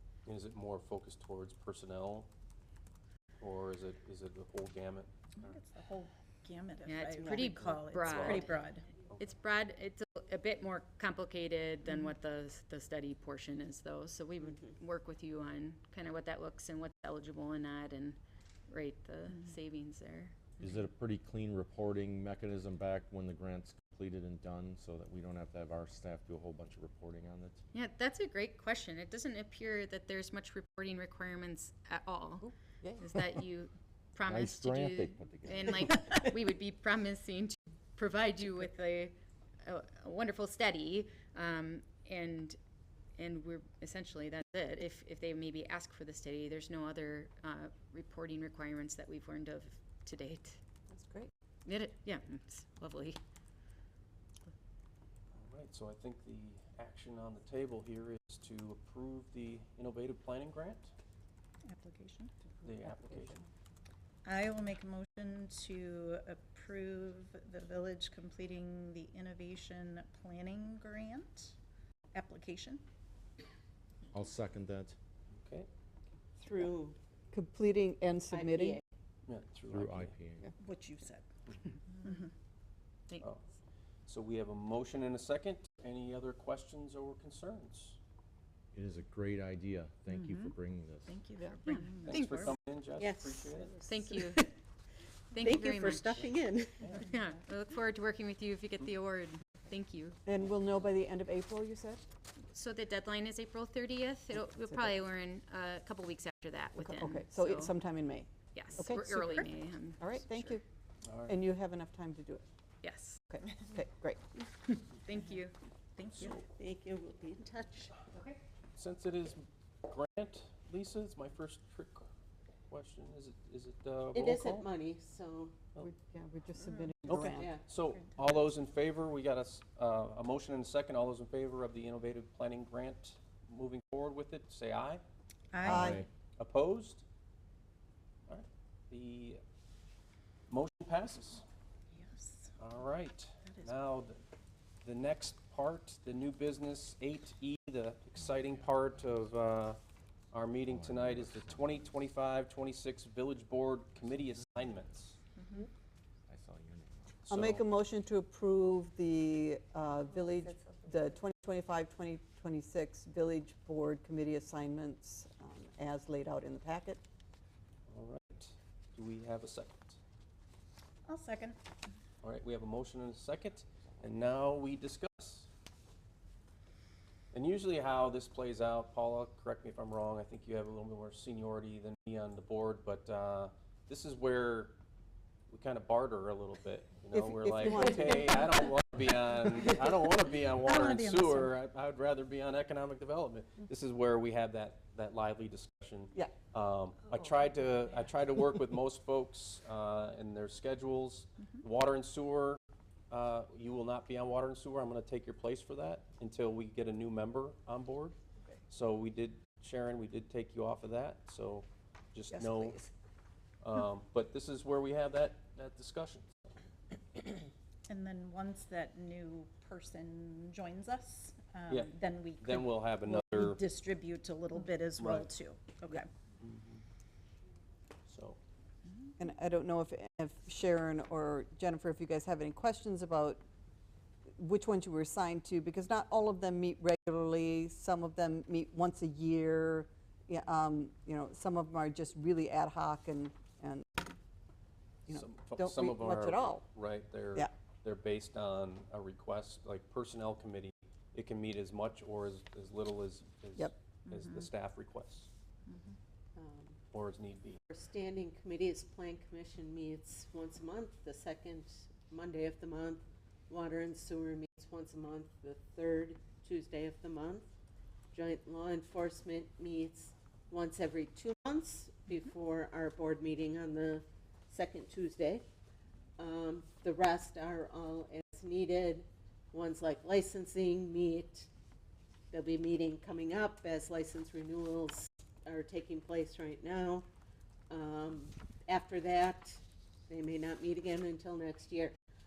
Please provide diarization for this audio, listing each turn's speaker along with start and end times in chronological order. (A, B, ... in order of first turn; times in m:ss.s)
0:00.2-0:02.3 A
0:03.4-0:05.6 A
0:05.4-0:08.8 B
0:06.8-0:08.5 C
0:07.7-0:08.4 A
0:09.2-0:20.7 C
0:20.6-0:27.6 D
0:27.7-0:42.6 C
0:34.2-0:36.1 D
0:43.2-0:50.6 C
0:50.9-0:51.3 E
0:51.6-0:53.2 C
0:55.3-1:00.9 A
1:01.7-1:02.3 B
1:02.6-1:03.4 A
1:02.6-1:03.4 E
1:04.2-1:11.6 B
1:12.1-1:12.8 B
1:14.1-1:15.0 D
1:15.3-1:15.7 A
1:16.4-1:17.0 F
1:17.3-1:18.8 E
1:19.3-1:20.1 A
1:19.7-1:20.5 D
1:20.6-1:21.2 B
1:21.9-1:22.3 B
1:24.1-1:28.0 A
1:28.7-1:31.1 D
1:30.1-1:30.5 B
1:31.1-1:32.6 B
1:31.6-1:32.4 C
1:32.0-1:33.8 A
1:33.0-1:34.5 F
1:33.9-1:34.4 C
1:35.3-1:36.2 C
1:35.3-1:36.8 F
1:36.8-1:37.0 A
1:37.0-1:40.2 C
1:40.2-1:42.0 E
1:42.4-1:47.8 C
1:44.4-1:44.9 E
1:46.8-1:50.6 E
1:48.5-1:50.6 C
1:51.0-1:51.4 A
1:51.2-1:52.4 E
1:52.8-1:53.2 C
1:53.3-1:54.2 E
1:54.6-1:55.5 C
1:55.1-1:55.4 B
1:56.0-1:56.4 B
1:56.1-1:56.4 A
1:56.2-1:57.9 F
1:58.1-1:58.4 C
1:58.8-2:02.1 A
2:02.7-2:04.7 A
2:04.1-2:05.6 F
2:05.8-2:07.5 E
2:07.1-2:15.0 A
2:07.3-2:07.6 F
2:07.9-2:08.4 B
2:15.5-2:16.0 B
2:15.6-2:16.1 D
2:15.6-2:16.0 E
2:16.4-2:17.0 A
2:18.3-2:19.4 A
2:20.5-2:21.4 A
2:21.9-2:22.6 B
2:22.6-2:24.2 A
2:23.5-2:23.8 B
2:24.8-2:29.8 A
2:28.2-2:29.4 D
2:30.3-2:35.2 A
2:30.6-2:32.0 D
2:34.0-2:35.0 D
2:36.3-2:37.3 D
2:37.2-2:37.6 A
2:37.3-2:47.0 E
2:47.9-2:50.0 A
2:51.1-2:51.6 B
2:52.2-2:55.5 A
2:57.3-3:04.8 A
3:05.5-3:28.2 A
3:07.1-3:08.7 E
3:10.6-3:11.5 B
3:28.7-3:32.8 A
3:32.3-3:32.9 E
3:33.6-3:36.5 A
3:37.9-3:46.1 B
3:41.7-3:43.6 A
3:45.0-3:45.3 A
3:46.4-3:46.8 A
3:48.0-3:48.4 A
3:49.2-3:53.4 E
3:54.4-4:04.0 E
4:05.1-4:06.6 E
4:05.1-4:15.3 A
4:14.1-4:14.5 B
4:16.4-4:16.8 F
4:16.9-4:17.6 A
4:17.7-4:27.5 F
4:28.1-4:35.4 F
4:36.2-4:41.5 F
4:42.3-4:47.1 F
4:47.7-4:51.9 F